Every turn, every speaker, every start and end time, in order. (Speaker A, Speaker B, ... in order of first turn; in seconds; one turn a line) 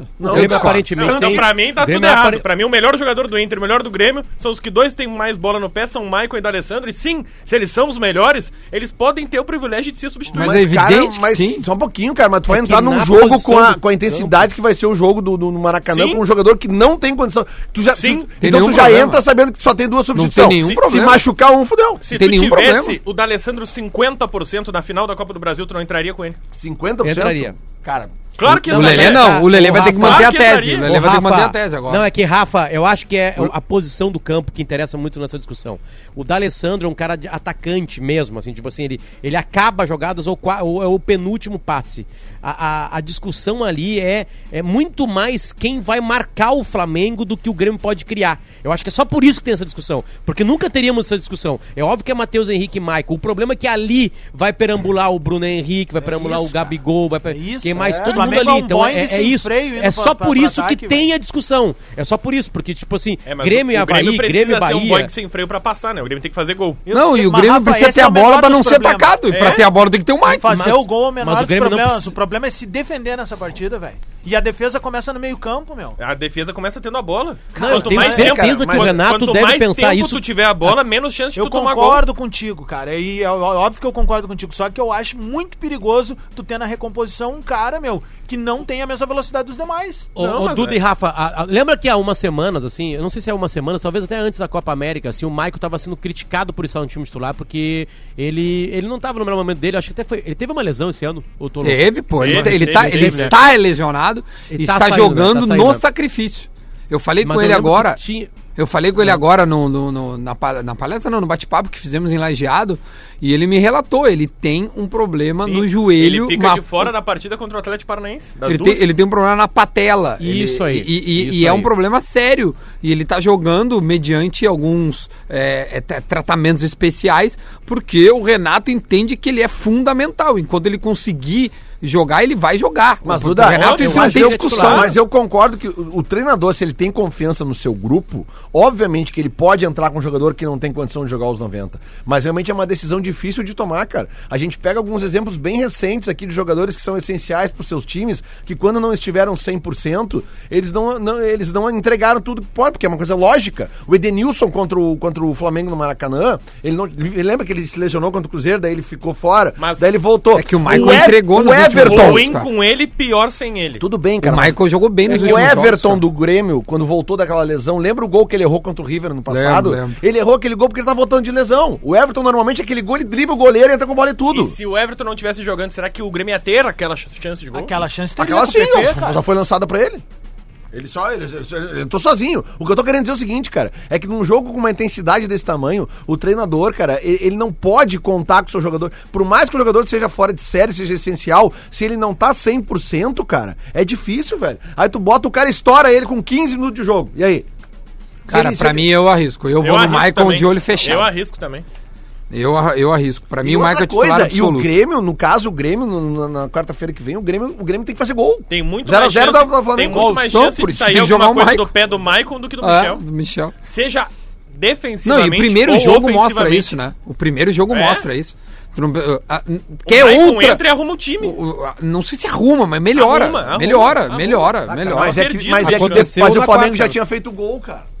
Speaker A: 0.2-1.5
Speaker B: 0.2-0.8
Speaker C: 0.3-2.4
Speaker D: 0.9-10.6
Speaker A: 10.3-22.0
Speaker B: 10.3-11.7
Speaker C: 12.5-14.4
Speaker D: 15.9-16.2
Speaker D: 17.9-18.3
Speaker B: 18.4-19.2
Speaker B: 20.1-21.2
Speaker D: 22.0-26.4
Speaker B: 22.1-23.0
Speaker A: 26.5-28.2
Speaker C: 27.0-27.5
Speaker D: 28.4-30.9
Speaker B: 28.4-32.1
Speaker C: 28.7-65.1
Speaker E: 56.0-56.7
Speaker E: 57.3-61.0
Speaker A: 57.8-58.4
Speaker D: 63.3-66.8
Speaker E: 66.8-69.2
Speaker B: 66.9-70.7
Speaker D: 69.3-69.7
Speaker E: 70.3-76.0
Speaker C: 70.5-72.1
Speaker D: 76.0-82.0
Speaker E: 77.5-78.3
Speaker C: 77.5-80.2
Speaker A: 77.7-79.0
Speaker E: 81.3-90.1
Speaker C: 90.2-103.5
Speaker D: 90.2-90.8
Speaker B: 101.6-108.0
Speaker D: 102.2-103.3
Speaker C: 104.5-105.8
Speaker C: 107.2-108.3
Speaker B: 108.5-116.9
Speaker C: 109.0-109.2
Speaker D: 115.4-118.9
Speaker B: 118.4-134.9
Speaker C: 120.2-121.7
Speaker A: 133.0-162.2
Speaker D: 133.4-134.9
Speaker C: 133.6-135.0
Speaker D: 159.6-159.9
Speaker B: 160.3-162.5
Speaker D: 160.6-163.8
Speaker A: 163.8-174.6
Speaker B: 164.2-166.0
Speaker C: 165.1-165.4
Speaker B: 169.3-170.0
Speaker D: 174.3-177.8
Speaker E: 177.5-179.2
Speaker A: 178.2-180.0
Speaker A: 180.7-197.5
Speaker B: 198.3-201.1
Speaker A: 198.3-198.9
Speaker D: 199.6-201.7
Speaker B: 202.3-204.7
Speaker A: 203.4-210.1
Speaker D: 208.5-213.0
Speaker B: 209.9-211.7
Speaker B: 212.6-213.5
Speaker D: 213.6-216.8
Speaker B: 215.0-220.6
Speaker D: 217.7-218.1
Speaker D: 219.8-221.4
Speaker B: 221.2-225.2
Speaker D: 222.9-226.1
Speaker A: 224.7-227.9
Speaker C: 225.6-227.0